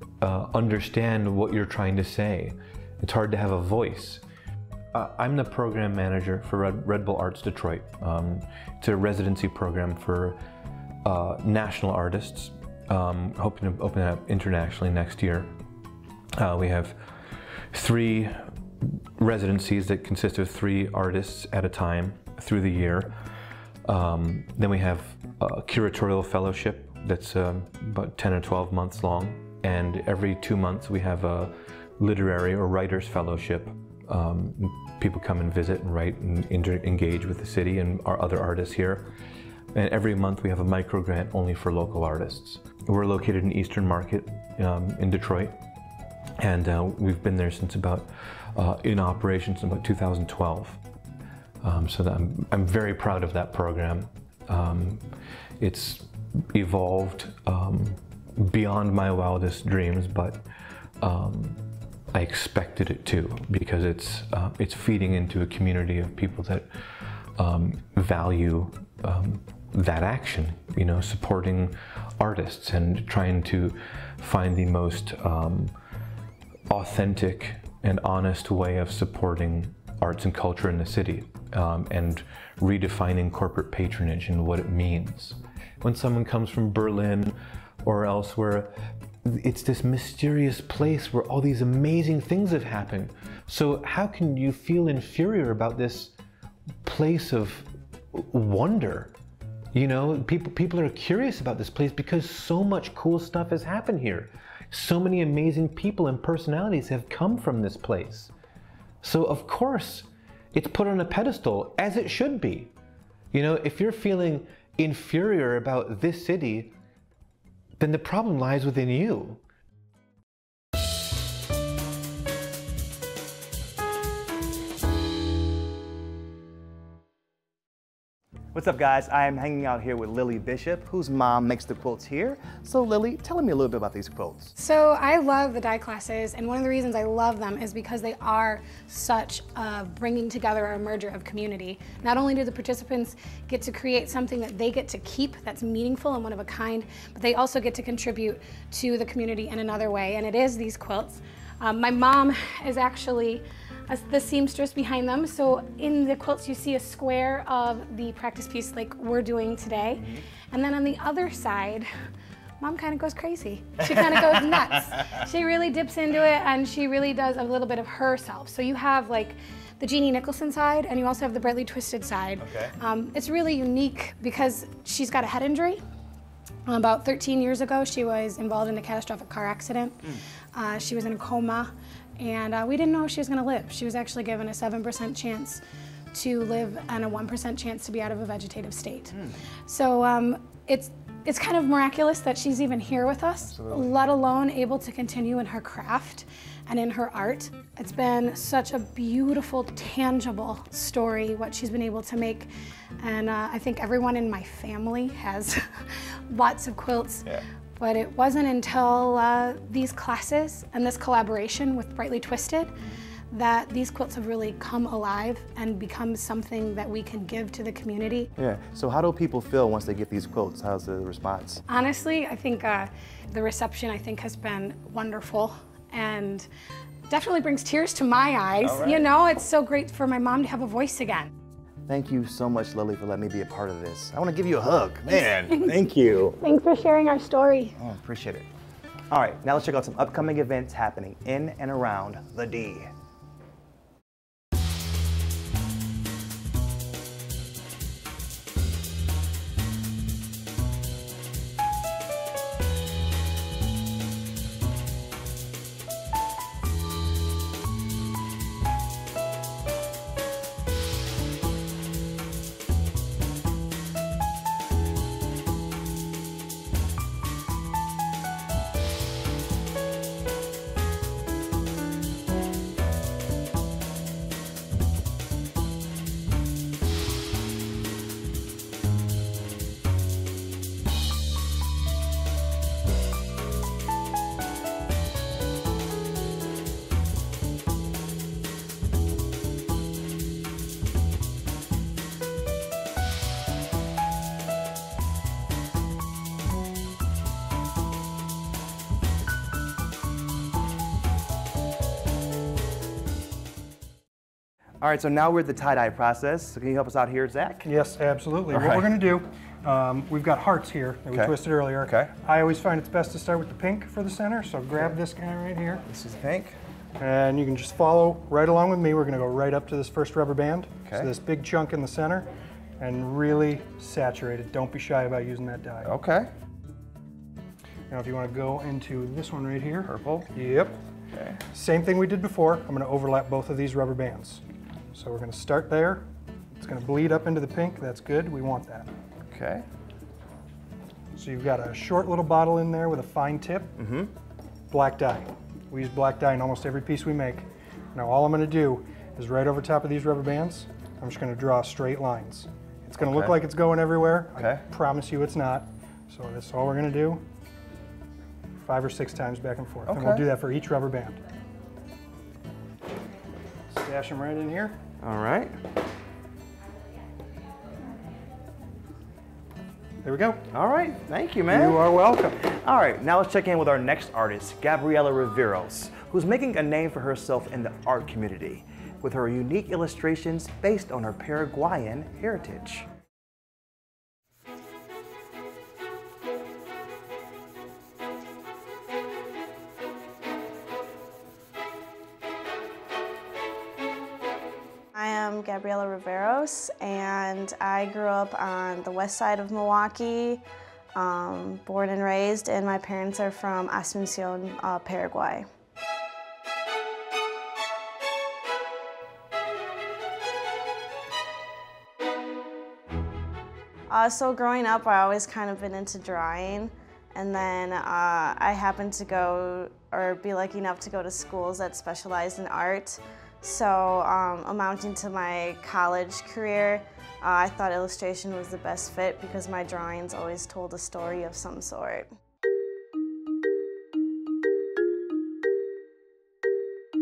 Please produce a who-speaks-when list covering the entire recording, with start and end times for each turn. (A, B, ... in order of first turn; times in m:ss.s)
0:00.2-0:04.2 A
0:04.9-0:10.4 A
0:11.0-0:15.6 A
0:16.4-0:17.1 A
0:17.7-0:23.1 A
0:23.8-0:39.1 A
0:39.7-0:45.6 A
0:46.4-0:50.8 A
0:51.6-1:00.4 A
1:01.0-1:06.7 A
1:07.4-1:15.7 A
1:16.7-1:36.1 A
1:36.8-1:39.1 A
1:39.7-1:48.3 A
1:49.0-1:52.7 A
1:53.3-1:56.8 A
1:57.8-1:59.4 A
2:08.5-2:14.5 B
2:14.6-2:41.9 C
2:42.6-2:55.8 C
2:52.4-2:52.7 B
2:56.7-3:05.6 C
3:06.1-3:22.5 C
3:13.4-3:14.1 B
3:23.0-3:27.2 C
3:27.8-3:32.7 C
3:33.3-3:38.3 C
3:38.4-3:41.6 B
3:41.7-3:46.5 C
3:47.1-3:51.3 C
3:48.6-3:49.1 B
3:51.9-3:56.4 B
3:55.1-3:55.8 C
3:56.4-3:57.8 C
3:57.8-3:58.5 B
3:59.1-4:02.9 B
5:04.8-5:07.7 B
5:07.6-5:15.8 D
5:08.5-5:08.9 B
5:11.1-5:12.1 B
5:15.8-5:16.6 B
5:17.0-5:25.9 D
5:20.8-5:21.1 B
5:25.8-5:26.3 B
5:27.9-5:30.8 D
5:29.8-5:30.3 B
5:31.1-5:31.4 B
5:31.5-5:38.9 D
5:39.3-5:39.6 B
5:41.1-5:43.7 D
5:43.8-5:44.1 B
5:44.7-5:57.2 D
5:53.0-5:53.4 B
5:54.4-5:54.6 B
5:58.6-6:01.2 D
5:59.8-6:00.3 B
6:03.7-6:04.8 D
6:05.0-6:05.6 B
6:10.0-6:10.4 D
6:10.5-6:11.9 B
6:11.5-6:12.4 D
6:12.4-6:22.9 B
6:34.9-6:40.4 E
6:40.9-6:45.4 E
6:53.9-7:12.1 E